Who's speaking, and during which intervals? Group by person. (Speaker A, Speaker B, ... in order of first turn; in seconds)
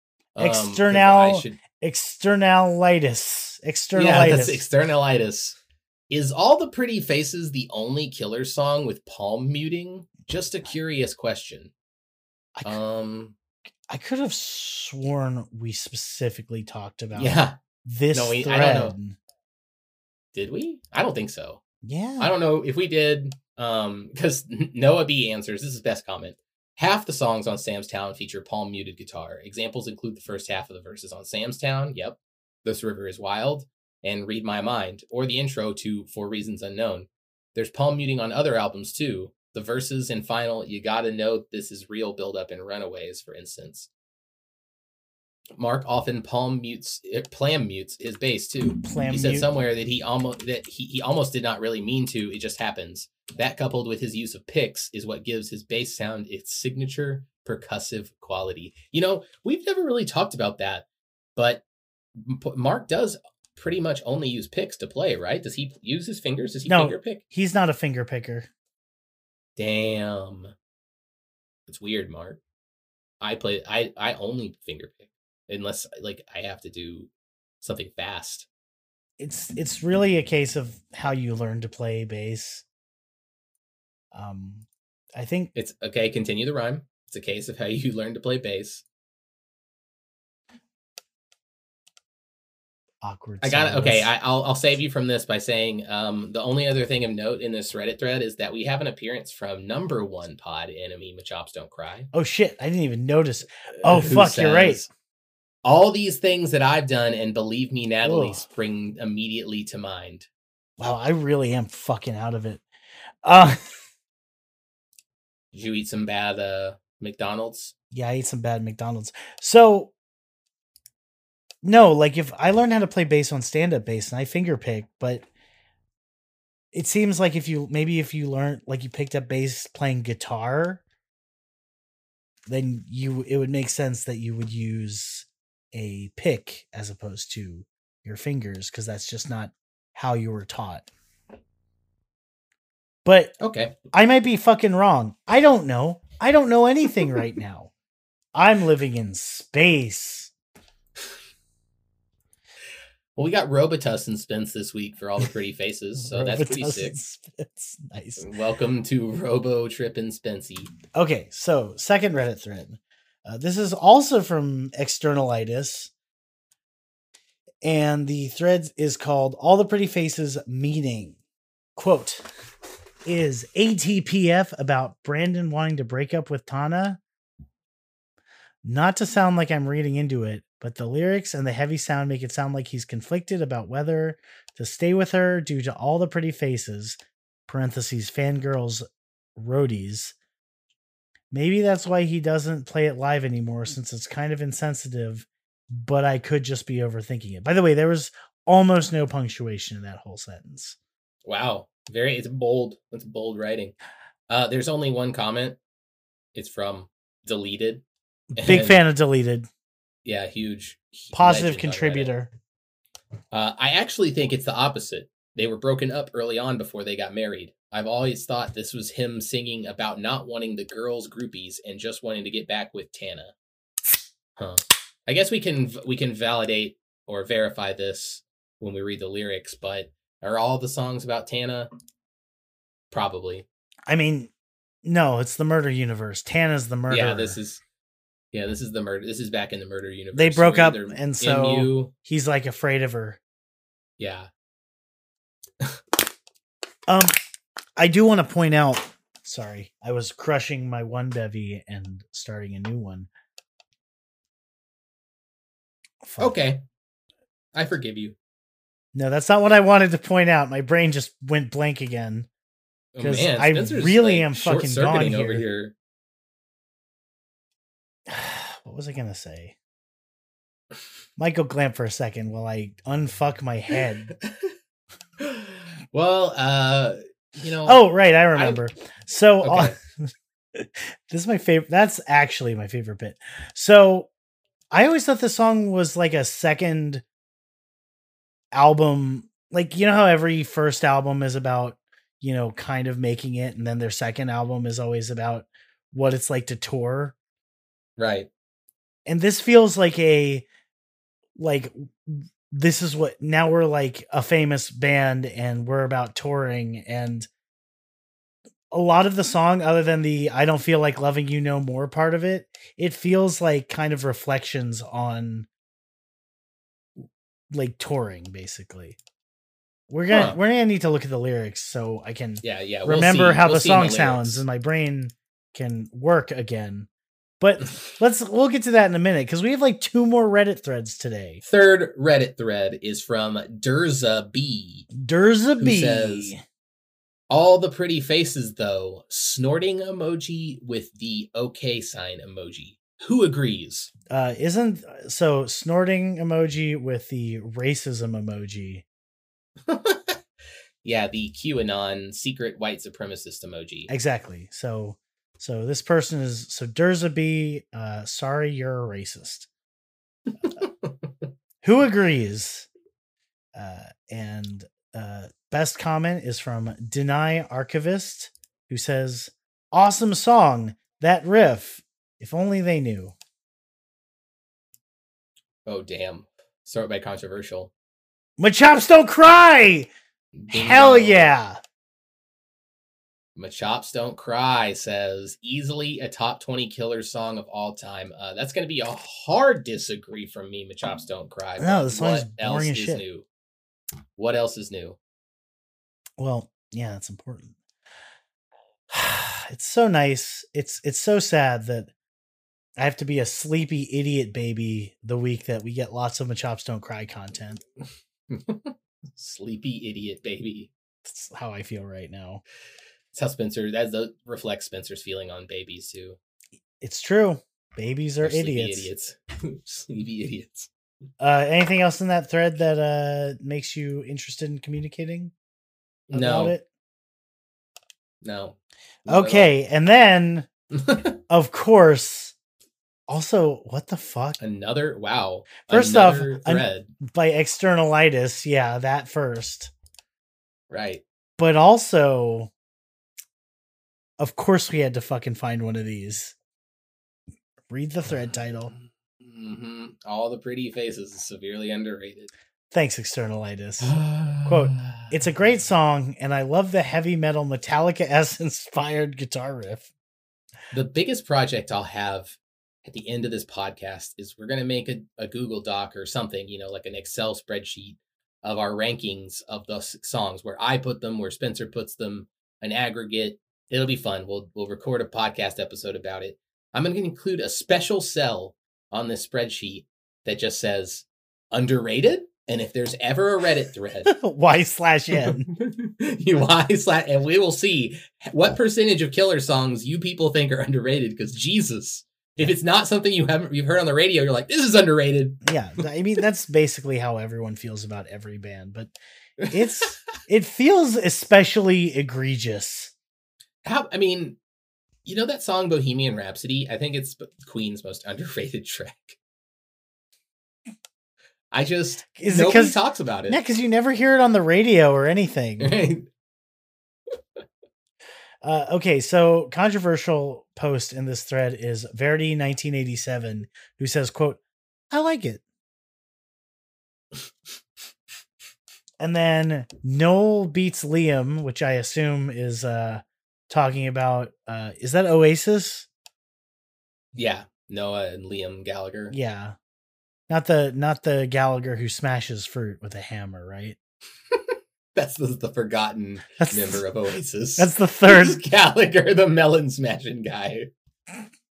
Speaker A: 0.3-1.6, 4.0-5.6, 6.1-11.7, 12.7-13.4, 17.1-17.6, 18.1-19.0, 20.3-21.6, 22.2-43.9, 45.6-61.6, 62.2-67.2, 69.6-70.5, 71.7-72.4, 73.2-77.1, 77.6-78.5, 85.5-88.8, 93.4-102.1, 103.8-104.9, 105.6-110.3, 115.5-117.7, 143.4-143.8, 153.2-157.0, 158.2-160.7, 201.2-203.8, 204.3-205.6, 206.3-207.8, 208.4-208.8, 210.0-212.1, 213.3-223.3, 224.4-231.7, 232.9-233.5, 236.9-237.6, 238.3-241.9, 244.0-244.3, 256.2-256.6, 257.5-258.2, 262.9-265.7, 274.2-274.5, 275.2-277.8, 279.4-279.8, 298.0-298.3, 320.1-320.4, 322.4-324.4, 331.4-334.9, 335.6-336.3, 337.3-343.9, 349.7-350.2, 350.8-353.9, 360.4-361.1, 375.7-377.7, 380.4-381.3, 383.4-393.3, 394.2-395.0, 408.3-410.7, 413.1-416.2, 418.2-420.7, 426.1-426.6, 428.2-429.5, 430.7-431.2, 434.4-436.9, 440.7-441.0, 448.7-452.3, 453.8-455.1, 460.7-484.2, 485.1-495.4, 499.4-499.9, 503.6-504.4, 505.1-509.2, 511.5-513.4, 515.6-516.1, 537.1-539.1, 544.3-550.7
Speaker B: 0.4-4.6, 13.9-19.2, 21.8-22.3, 48.8-49.5, 66.7-68.5, 79.2-82.7, 84.1-85.5, 93.0-94.1, 102.1-104.9, 108.0-108.5, 110.8-112.6, 113.2-113.8, 117.9-119.9, 121.6-125.3, 126.7-130.8, 132.5-140.9, 143.1-143.4, 143.9-147.7, 148.3-150.3, 156.0-158.3, 160.9-165.9, 167.6-171.2, 171.8-172.3, 173.1-177.0, 178.6-188.8, 189.4-190.2, 191.3-200.8, 208.3-209.5, 211.1-212.3, 233.9-234.3, 234.8-237.4, 240.2-243.2, 246.9-247.2, 247.8-253.1, 256.0-256.4, 258.9-262.3, 263.0-265.5, 268.1-269.6, 271.2-274.1, 277.7-284.1, 284.7-287.0, 288.5-297.1, 299.1-300.5, 301.4-307.3, 308.7-315.5, 317.5-319.0, 319.9-326.9, 327.4-331.4, 334.9-336.4, 344.1-348.9, 353.9-359.5, 361.6-362.7, 363.6-373.1, 378.4-379.9, 380.5-381.6, 391.6-393.0, 396.2-397.6, 398.9-401.9, 402.8-407.6, 411.0-412.4, 416.8-418.9, 421.2-425.3, 426.1-426.7, 429.1-430.5, 431.3-432.4, 433.1-434.4, 435.7-439.7, 441.4-442.5, 444.2-446.4, 447.7-448.7, 452.7-459.9, 484.1-485.5, 495.4-499.0, 499.5-502.9, 512.2-515.8, 518.4-524.4, 524.9-525.4, 529.0-535.9, 539.1-539.5, 540.3-543.8, 546.4-546.9, 547.6-548.4